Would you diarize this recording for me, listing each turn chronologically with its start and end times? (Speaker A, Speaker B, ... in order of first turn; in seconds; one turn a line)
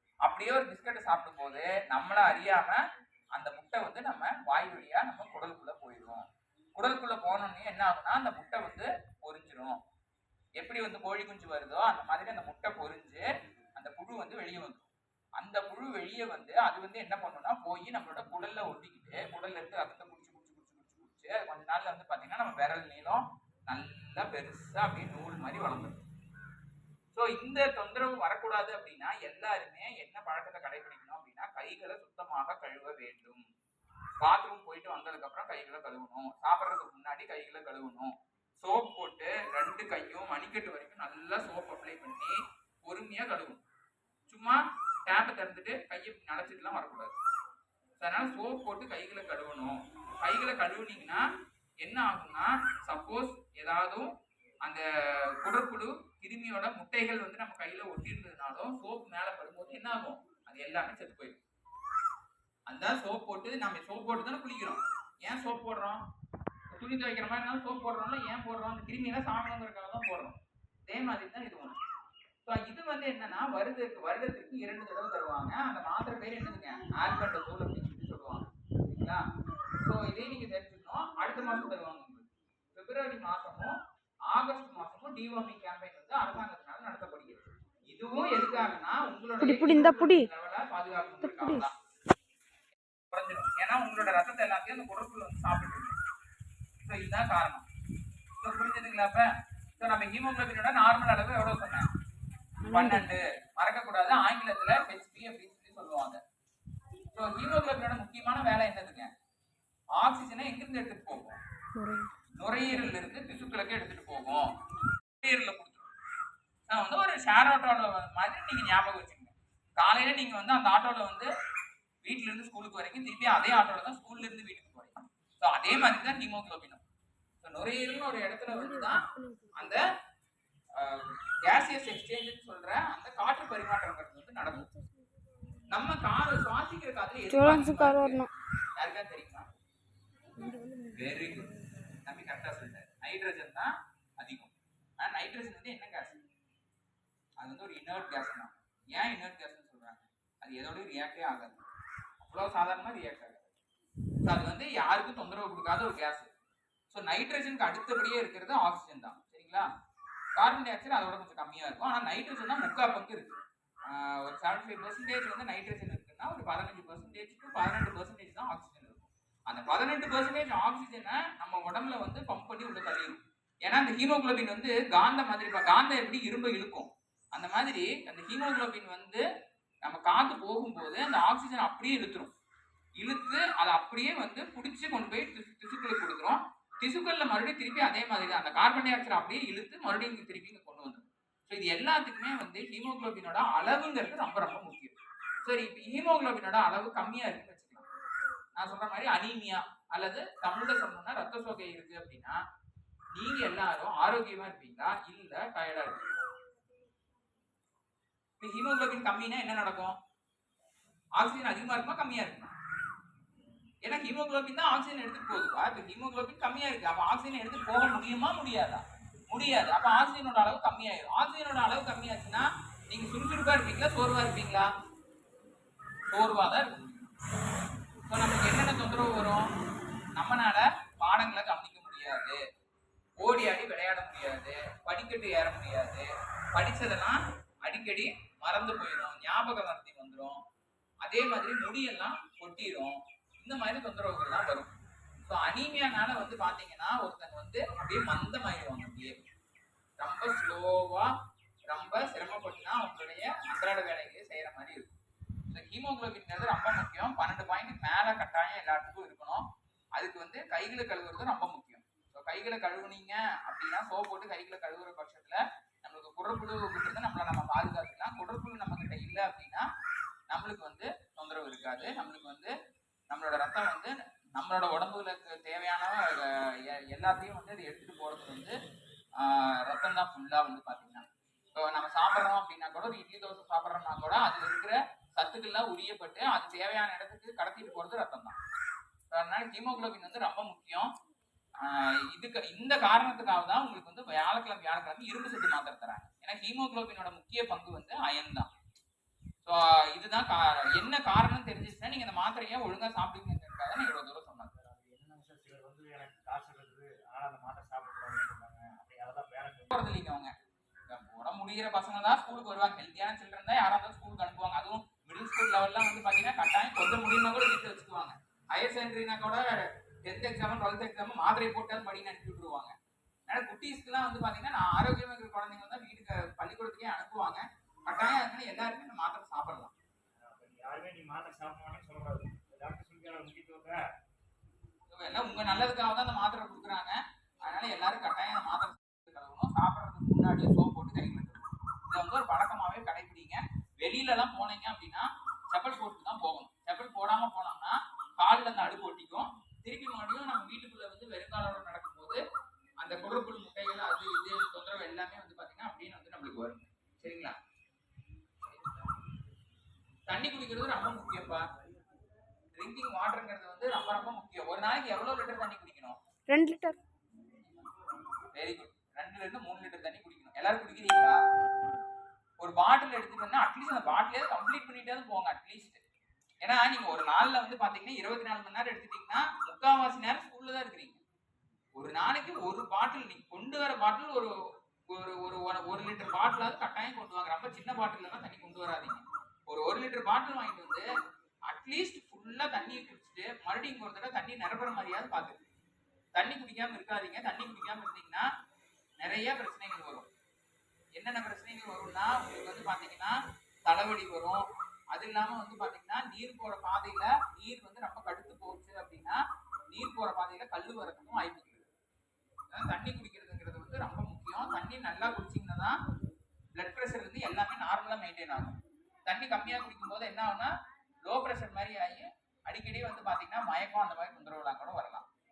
Speaker A: 0.2-2.8
Speaker A: 3.3-9.8
Speaker A: 10.6-26.1
Speaker A: 27.1-33.5
Speaker A: 34.2-43.6
Speaker A: 44.3-47.1
Speaker A: 48.0-51.2
Speaker A: 51.8-61.4
Speaker A: 62.7-66.0
Speaker A: 66.7-70.3
Speaker A: 70.9-71.8
Speaker A: 72.4-79.2
Speaker A: 79.8-83.8
Speaker A: 84.3-91.7
Speaker B: 89.4-90.3
Speaker B: 91.2-91.6
Speaker A: 93.1-96.0
Speaker A: 96.8-97.6
Speaker A: 98.4-101.9
Speaker B: 102.6-103.1
Speaker A: 102.7-106.2
Speaker A: 107.1-109.1
Speaker A: 110.0-111.4
Speaker B: 111.8-112.1
Speaker A: 112.4-114.5
Speaker A: 115.2-115.9
Speaker A: 116.7-121.3
Speaker A: 122.0-126.8
Speaker A: 127.4-129.8
Speaker B: 128.5-129.7
Speaker A: 130.8-134.7
Speaker A: 135.7-138.3
Speaker B: 137.3-138.3
Speaker A: 138.8-139.5
Speaker B: 140.4-141.5
Speaker A: 140.9-141.5
Speaker A: 142.0-146.2
Speaker A: 147.4-151.6
Speaker A: 152.2-153.5
Speaker A: 154.2-156.3
Speaker A: 156.9-159.7
Speaker A: 160.4-163.3
Speaker A: 163.9-179.2
Speaker A: 179.8-182.3
Speaker A: 183.0-197.8
Speaker A: 198.5-202.4
Speaker A: 203.1-206.3
Speaker A: 208.4-209.9
Speaker A: 211.2-212.5
Speaker A: 213.8-224.7
Speaker A: 226.1-227.0
Speaker A: 228.1-229.5
Speaker A: 230.2-232.4
Speaker A: 233.2-240.4
Speaker A: 241.0-249.2
Speaker A: 250.0-251.1
Speaker A: 251.7-254.9
Speaker A: 255.5-259.4
Speaker A: 260.0-269.7
Speaker A: 270.3-272.5
Speaker A: 273.1-278.6
Speaker A: 279.2-288.4
Speaker A: 289.1-290.9
Speaker A: 291.6-298.5
Speaker A: 299.4-304.5
Speaker C: 304.5-309.9
Speaker A: 309.7-310.3
Speaker A: 310.9-319.4
Speaker A: 320.0-322.7
Speaker A: 323.3-329.7
Speaker C: 330.2-333.8
Speaker A: 334.9-352.2
Speaker A: 352.8-357.4
Speaker A: 358.4-358.9
Speaker A: 360.1-361.4
Speaker A: 362.5-366.0
Speaker B: 366.3-366.8
Speaker A: 368.3-371.2
Speaker A: 372.4-375.8
Speaker A: 376.4-381.0
Speaker A: 381.7-384.3
Speaker A: 384.9-390.8
Speaker A: 391.5-395.4
Speaker A: 396.1-398.2
Speaker A: 399.0-400.1
Speaker A: 400.9-403.1
Speaker A: 403.6-411.7
Speaker A: 412.5-415.8
Speaker A: 416.6-420.5
Speaker A: 421.0-425.1